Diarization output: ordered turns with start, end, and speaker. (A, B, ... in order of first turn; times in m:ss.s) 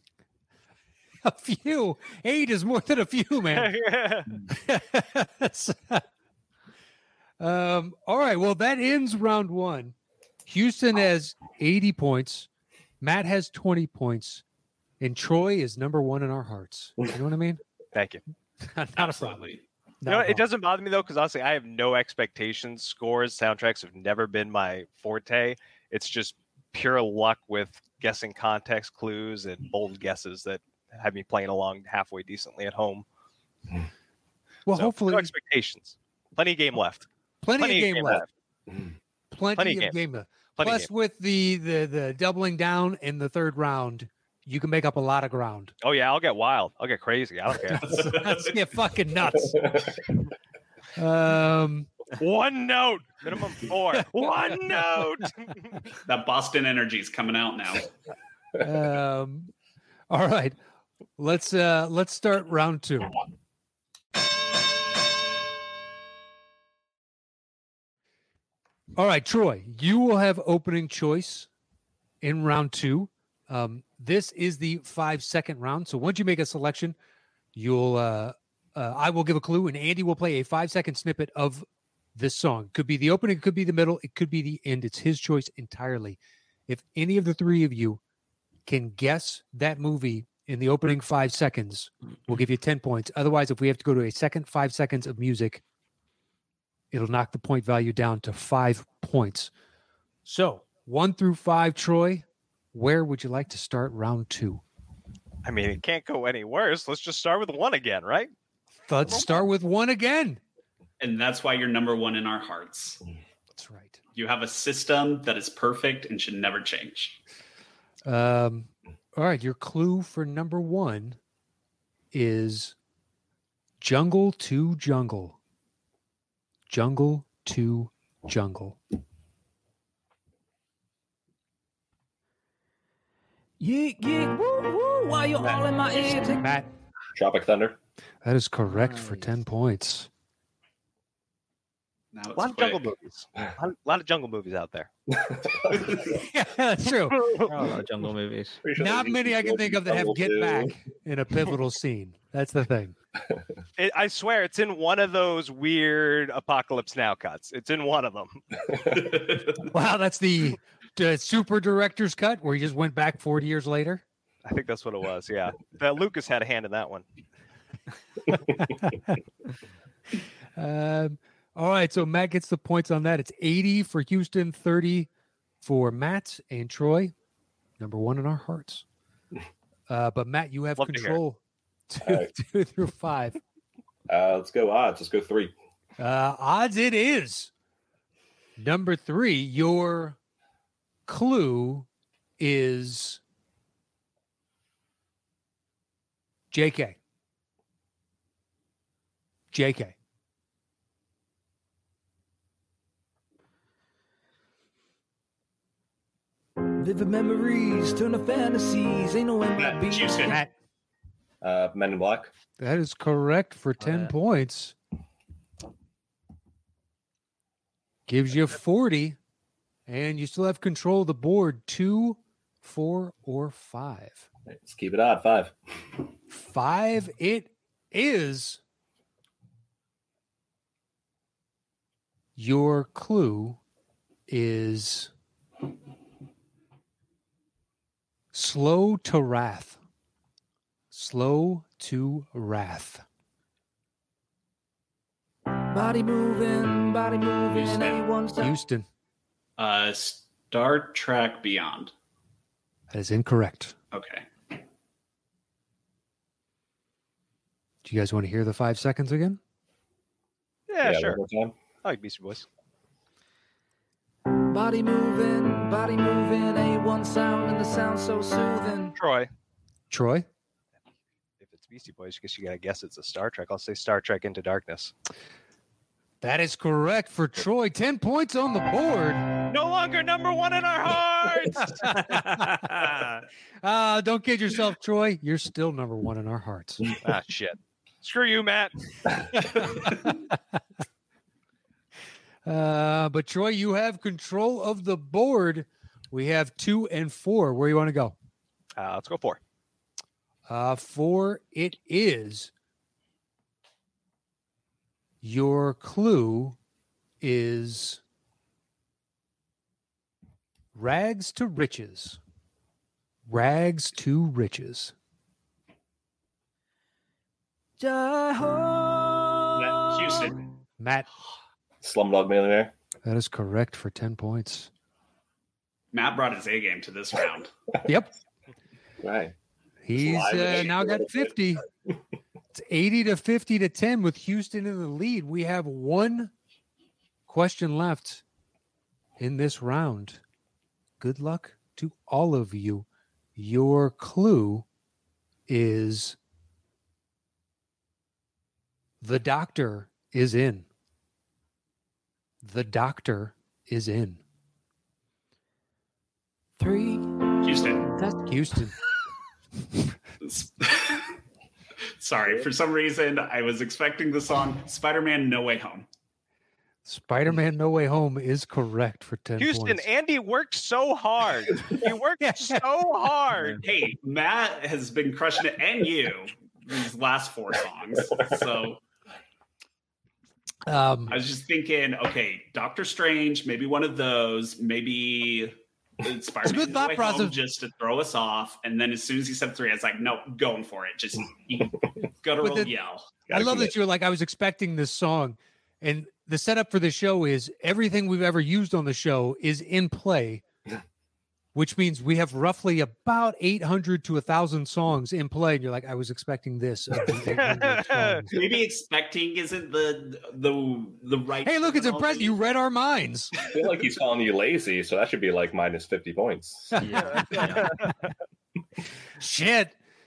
0:01.2-0:03.7 A
0:03.5-0:04.3 B
0:04.5-0:06.0 A
0:07.4-0:09.9 A
0:10.4-0:12.5 A
0:13.0-0:14.4 A
0:15.0-0:17.6 A
0:17.9-0:18.2 B
0:18.6-0:20.4 A
0:19.0-0:19.6 C
0:20.0-0:33.0 B
0:34.6-0:35.3 A
0:34.7-0:38.3 B
0:37.4-0:38.3 A
0:39.3-0:45.7 A
0:39.6-0:40.0 B
0:40.6-0:40.9 B
0:45.8-0:48.1 B
0:47.7-0:49.9 A
0:47.8-0:48.6 C
0:49.4-0:50.0 D
0:50.9-0:51.9 A
0:52.2-0:55.8 B
0:56.0-0:57.9 C
0:58.6-0:59.5 A
1:00.1-1:00.6 A
1:01.2-1:03.2 A
1:09.0-1:11.5 A
1:12.2-1:17.0 A
1:17.5-1:28.0 A
1:28.6-1:35.6 A
1:36.9-1:39.5 A
1:40.2-1:44.6 A
1:45.4-1:48.3 B
1:48.9-1:50.4 A
1:51.0-1:53.0 C
1:53.5-1:54.0 A
1:54.1-1:57.2 C
1:58.0-2:01.2 A
2:02.1-2:02.8 A
2:03.8-2:05.4 A
2:06.7-2:08.8 A
2:13.6-2:16.5 E
2:16.4-2:16.7 A
2:17.1-2:17.8 D
2:18.2-2:20.1 A
2:18.7-2:19.4 F
2:22.1-2:22.8 C
2:22.4-2:24.9 B
2:25.1-2:26.2 D
2:26.3-2:27.3 A
2:27.0-2:27.6 B
2:27.3-2:28.6 F
2:28.6-2:30.8 D
2:28.8-2:32.9 A
2:33.8-2:38.4 B
2:39.6-2:44.0 A
2:44.4-2:47.0 B
2:50.6-2:55.1 A
2:55.6-2:57.1 A
2:57.8-2:58.8 A
2:59.9-3:03.4 A
3:00.8-3:01.2 B
3:02.0-3:02.3 D
3:04.1-3:05.5 D
3:06.0-3:07.5 A
3:08.6-3:10.2 A
3:11.1-3:11.9 A
3:12.4-3:13.2 A
3:16.5-3:17.0 A
3:19.5-3:19.9 A
3:26.8-3:30.4 E
3:29.9-3:30.4 C
3:30.2-3:30.5 A
3:31.4-3:32.3 D
3:32.6-3:34.7 A
3:33.8-3:34.1 F
3:38.1-3:39.2 A
3:39.9-3:44.3 A
3:44.4-3:45.5 D
3:46.3-3:48.6 A
3:52.4-3:53.6 A
3:54.3-3:55.1 A
3:58.3-3:59.8 A
4:00.9-4:03.0 A
4:05.7-4:08.6 E
4:07.5-4:08.0 C
4:08.4-4:08.9 A
4:09.6-4:11.9 C
4:12.9-4:13.7 A
4:13.9-4:14.3 C
4:17.8-4:19.4 A
4:20.7-4:21.2 B
4:20.8-4:21.6 D
4:21.8-4:22.4 B
4:24.5-4:29.0 E
4:29.0-4:29.3 B
4:29.9-4:30.2 A
4:31.4-4:34.9 B
4:36.2-4:39.2 A
4:39.5-4:43.2 B
4:41.6-4:42.5 A
4:42.0-4:43.2 F
4:43.6-4:47.0 A
4:47.0-4:49.5 B
4:49.8-4:50.2 A
4:52.4-4:58.1 A
4:58.8-4:59.4 B
5:00.5-5:02.5 A
5:05.2-5:06.6 A
5:07.2-5:08.0 A
5:10.7-5:12.2 A
5:13.2-5:14.9 A
5:17.8-5:20.3 E
5:19.6-5:20.5 C
5:20.8-5:21.1 A
5:21.8-5:22.7 D
5:23.0-5:24.7 A
5:25.9-5:27.5 C
5:27.8-5:28.1 A
5:29.0-5:29.3 D
5:29.8-5:31.6 A
5:29.9-5:31.3 D
5:32.5-5:36.3 A
5:37.3-5:38.2 A
5:39.2-5:40.2 A
5:41.0-5:44.6 A
5:45.5-5:46.2 A
5:49.0-5:50.7 A
5:52.4-5:54.2 A
5:56.6-5:57.2 E
5:57.4-5:57.9 C
5:57.9-5:58.3 E
5:58.3-5:58.7 A
6:00.2-6:01.1 C
6:02.0-6:05.9 C
6:06.8-6:09.8 A
6:09.4-6:13.6 B
6:12.2-6:12.6 A
6:13.3-6:13.6 F
6:13.6-6:18.8 C
6:20.7-6:21.1 A
6:21.1-6:33.0 C
6:26.4-6:27.4 A
6:32.4-6:32.7 A
6:33.3-6:33.7 D
6:33.3-6:40.4 A
6:41.5-6:48.3 A
6:47.4-6:48.2 B
6:48.3-6:52.4 C
6:51.4-6:53.3 A
6:53.4-6:57.6 D
6:56.8-6:57.6 A
6:56.8-6:57.7 F
6:57.2-6:57.9 B
6:59.2-6:59.8 A